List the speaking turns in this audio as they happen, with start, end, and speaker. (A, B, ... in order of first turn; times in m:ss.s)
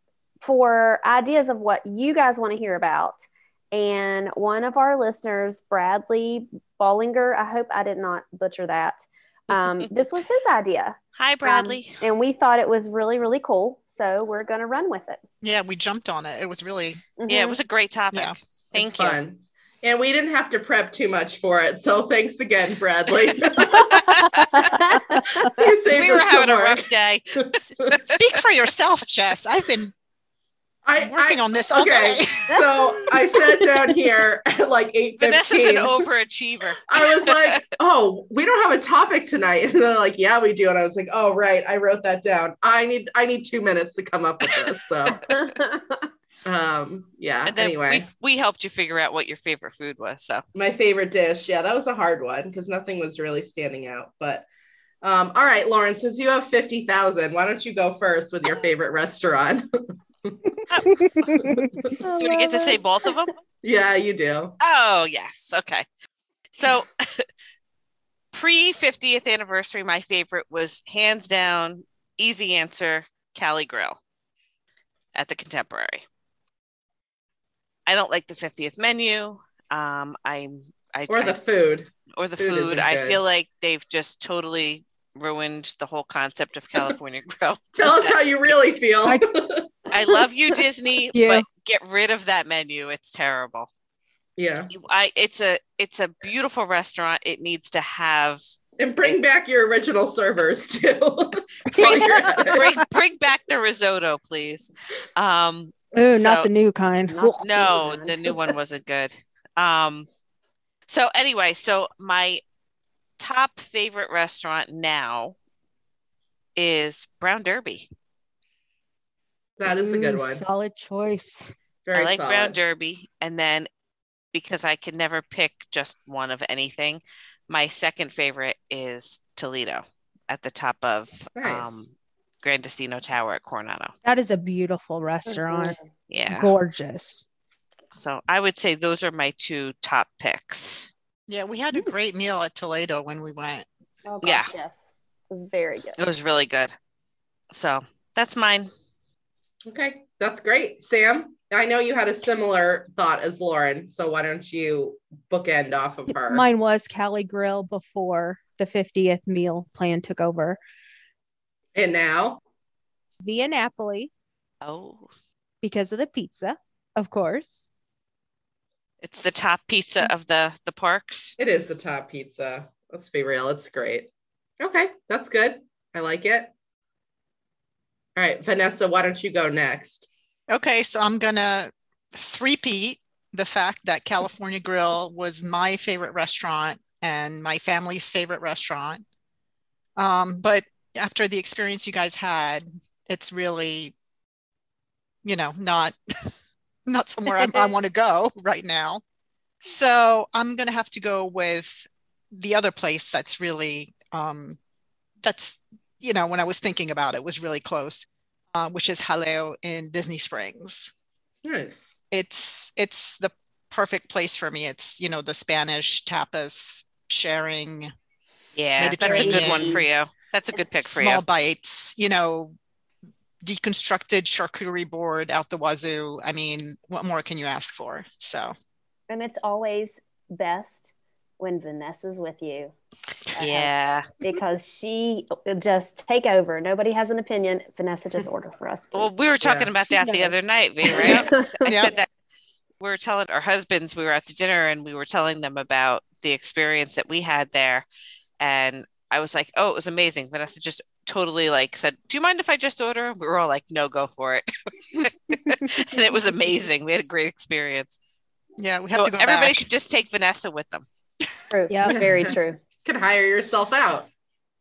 0:00.4-0:03.2 A
0:03.7-0:15.2 A
0:09.6-0:09.9 B
0:11.2-0:12.0 B
0:15.4-0:17.0 C
0:17.2-0:17.6 A
0:17.3-0:19.2 B
0:18.7-0:24.2 D
0:23.7-0:24.8 B
0:24.6-0:25.5 A
0:25.4-0:26.8 D
0:25.8-0:28.3 B
0:27.4-0:27.9 D
0:27.9-0:29.9 C
0:30.8-0:36.1 D
0:31.0-0:32.8 C
0:35.2-0:37.6 B
0:36.9-0:45.3 D
0:45.3-0:46.0 A
0:46.4-0:48.0 D
0:47.4-0:50.4 B
0:50.5-0:54.4 D
0:55.0-1:00.6 D
1:00.7-1:01.5 B
1:01.1-1:01.7 E
1:01.5-1:02.0 D
1:02.0-1:02.8 A
1:02.0-1:03.3 B
1:03.6-1:04.6 D
1:04.6-1:05.8 B
1:06.5-1:07.3 B
1:08.3-1:14.0 B
1:15.1-1:16.0 B
1:17.8-1:21.4 B
1:21.1-1:23.2 D
1:22.1-1:28.2 B
1:27.7-1:29.7 D
1:29.0-1:29.3 E
1:29.9-1:33.7 B
1:31.1-1:31.4 E
1:34.4-1:34.7 D
1:34.7-1:38.4 B
1:38.8-1:42.6 D
1:39.0-1:39.3 B
1:41.7-1:42.7 E
1:41.8-1:46.5 B
1:45.9-1:47.8 E
1:47.1-1:48.4 A
1:47.4-1:50.1 B
1:50.9-1:52.4 B
1:53.2-1:55.3 B
1:56.6-1:57.9 B
1:59.6-2:00.4 D
1:59.6-2:01.5 E
2:01.8-2:02.6 D
2:01.9-2:03.7 B
2:04.3-2:13.9 B
2:11.4-2:11.8 D
2:14.0-2:15.8 E
2:15.3-2:15.8 A
2:16.1-2:16.5 B
2:16.3-2:17.2 E
2:17.9-2:20.9 B
2:21.3-2:23.6 C
2:24.1-2:26.0 A
2:24.2-2:24.5 B
2:26.0-2:26.7 B
2:27.5-2:28.7 B
2:29.7-2:36.5 D
2:36.1-2:40.6 E
2:41.7-2:42.4 D
2:43.2-2:44.1 E
2:44.6-2:45.1 B
2:45.6-2:47.7 E
2:49.0-2:51.3 B
2:51.4-2:54.1 D
2:54.6-2:56.5 D
2:58.2-3:00.1 D
3:00.5-3:09.0 C
3:10.0-3:13.9 C
3:15.2-3:16.0 C
3:16.8-3:19.0 C
3:19.6-3:24.6 C
3:25.2-3:30.9 C
3:31.4-3:31.9 D
3:32.1-3:37.9 C
3:38.6-3:41.2 B
3:38.8-3:39.8 C
3:39.0-3:39.8 A
3:39.0-3:39.7 E
3:40.8-3:42.6 C
3:43.4-3:48.5 C
3:49.1-3:52.7 A
3:53.3-3:59.1 A
3:53.4-3:54.0 B
3:58.9-4:02.1 B
3:59.4-3:59.7 D
4:00.0-4:00.4 E
4:00.9-4:01.8 A
4:01.6-4:01.9 C
4:02.8-4:07.8 B
4:08.4-4:18.0 B
4:18.6-4:19.7 C
4:19.0-4:20.8 B
4:21.5-4:22.6 A
4:21.7-4:22.3 E
4:21.9-4:24.1 D